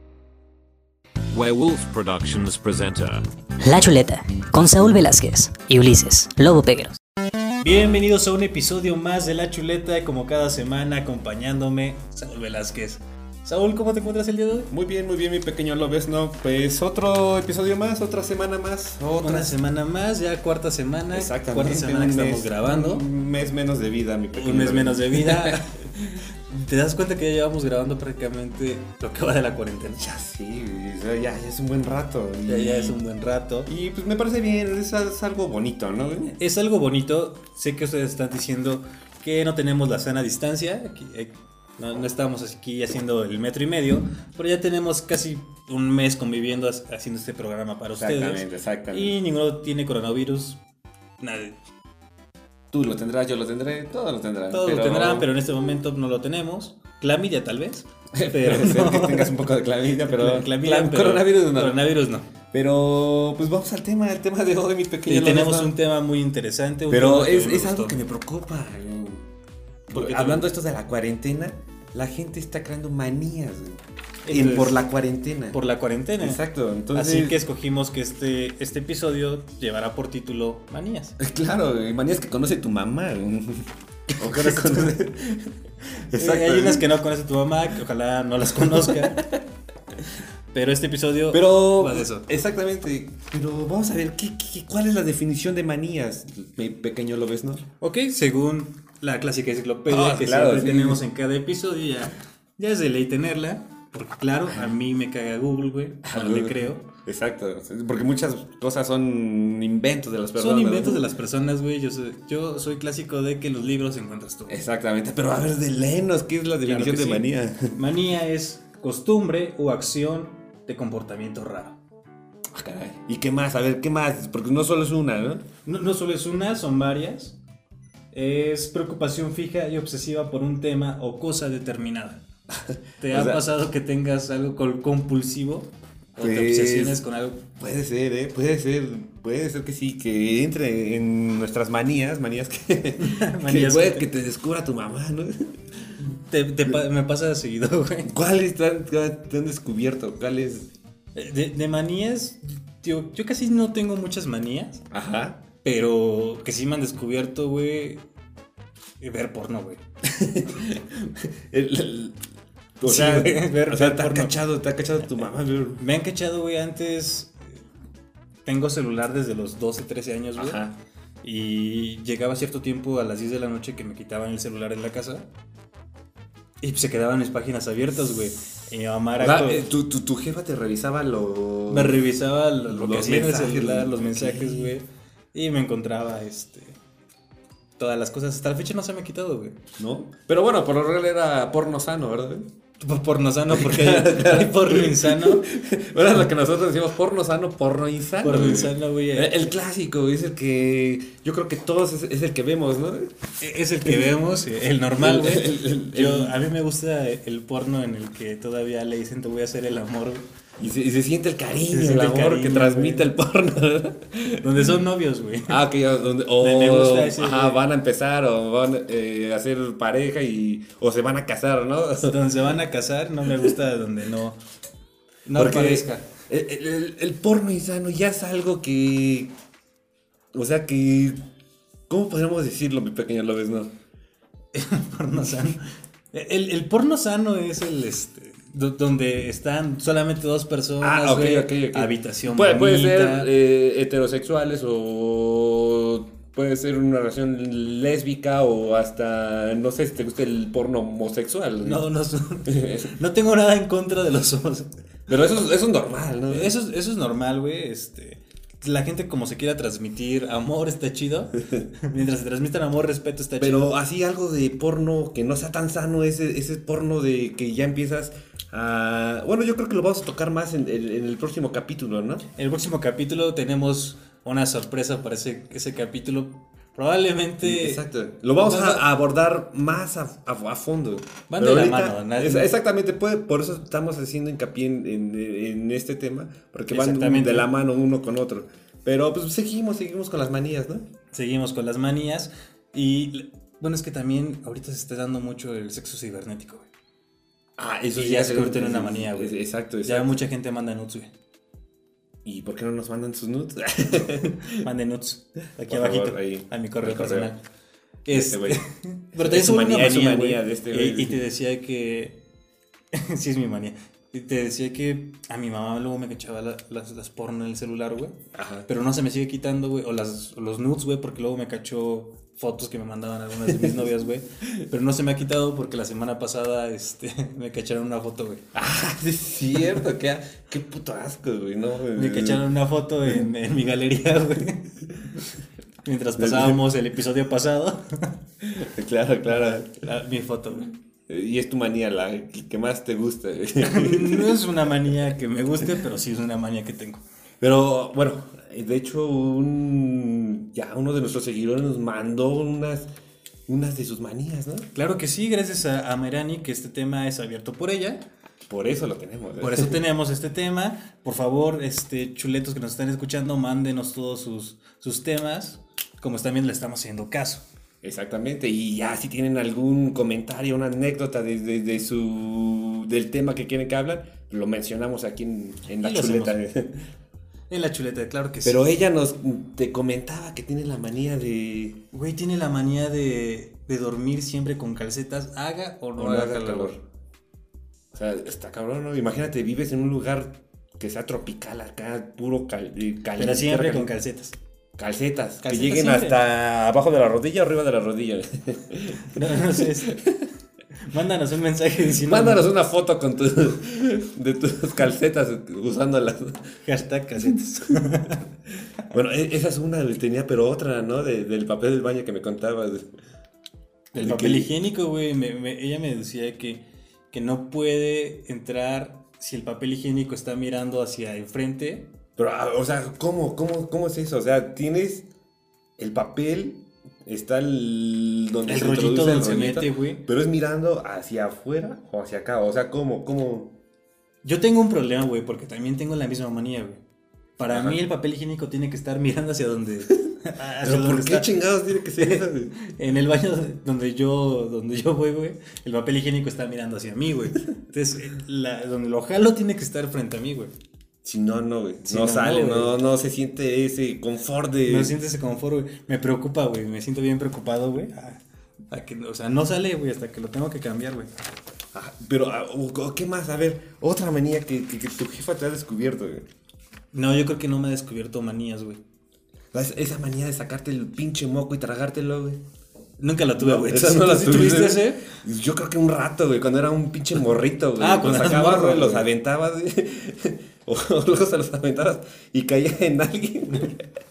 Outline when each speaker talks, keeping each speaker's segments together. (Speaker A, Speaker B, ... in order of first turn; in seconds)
Speaker A: 1.3-3.2
Speaker B: 3.6-7.0
Speaker C: 7.6-14.7, 19.2-23.1, 24.3-25.8, 26.5-30.0, 32.5-33.7, 36.3-50.6, 51.2-51.6, 54.5-59.3, 60.1-62.3, 65.1-68.0, 69.9-70.5, 74.2-74.8, 75.5-76.4, 76.9-81.2, 84.1-84.9, 86.1-89.2, 90.5-92.3, 97.8-106.9, 110.4-114.6, 116.7-121.8, 125.7-127.4, 128.1-132.2, 133.0-137.4, 143.0-144.1, 146.0-148.1, 151.2-154.8, 155.6-158.0, 159.0-159.8, 162.8-164.4, 165.8-167.4, 168.5-170.6, 171.2-175.3, 176.6-179.7, 181.7-186.8, 187.8-189.6, 192.8-195.5, 198.2-199.5, 203.4-210.3, 211.7-213.1, 214.4-215.6, 216.4-217.6, 222.0-224.4, 225.3-226.1, 234.5-243.3, 251.6-254.7, 256.3-263.7, 272.4-277.8, 278.4-278.8, 281.3-282.5, 286.7-287.5, 291.1-296.7, 298.0-301.1, 304.4-307.4, 308.1-312.2, 312.9-328.4, 331.9-334.8, 335.8-338.1, 339.3-340.7, 343.6-347.0, 354.7-358.1, 359.4-367.4, 375.8-376.4, 377.5-378.6, 381.9-386.8, 393.2-394.4, 395.4-396.2, 399.1-400.0, 400.8-402.5, 406.6-408.2, 413.9-421.9, 428.5-430.1, 434.2-436.8, 437.4-441.3, 442.0-450.5, 451.9-452.7, 454.7-461.1, 466.9-468.8, 473.0-475.0, 477.8-479.1
Speaker D: 14.7-19.6, 21.1-26.2, 30.0-33.0, 33.7-36.4, 48.0-49.1, 52.7-55.3, 58.1-61.8, 62.5-65.7, 66.9-69.2, 69.9-75.6, 76.2-77.4, 81.2-85.6, 86.1-86.8, 88.6-89.4, 91.3-97.7, 99.9-101.0, 106.0-111.1, 114.5-117.8, 122.5-125.5, 132.5-133.4, 136.2-137.0, 137.5-145.6, 148.1-150.7, 154.9-155.4, 160.0-162.2, 162.8-165.8, 170.4-170.8, 179.2-182.0, 182.7-184.8, 189.8-192.5, 193.5-203.1, 203.8-204.1, 205.0-206.4, 210.6-214.7, 215.5-222.2, 225.4-229.3, 230.3-231.2, 231.9-233.7, 240.8-251.8, 252.5-252.9, 255.1-256.5, 263.4-272.2, 277.4-290.9, 297.6-300.2, 302.2-304.6, 305.7-307.3, 308.1-308.6, 309.1-311.2, 318.3-318.7, 323.5-323.8, 328.5-332.4, 336.2-336.6, 338.4-339.7, 341.1-344.4, 347.4-352.9, 353.5-354.7, 358.5-359.8, 367.8-376.7, 378.4-381.8, 386.0-386.8, 387.9-393.9, 394.8-400.2, 402.0-406.5, 408.9-412.9, 414.0-414.5, 422.2-425.1, 425.8-433.5, 437.5-437.8, 440.6-442.5, 451.0-455.0, 461.7-466.3, 469.5-472.4, 473.4-483.8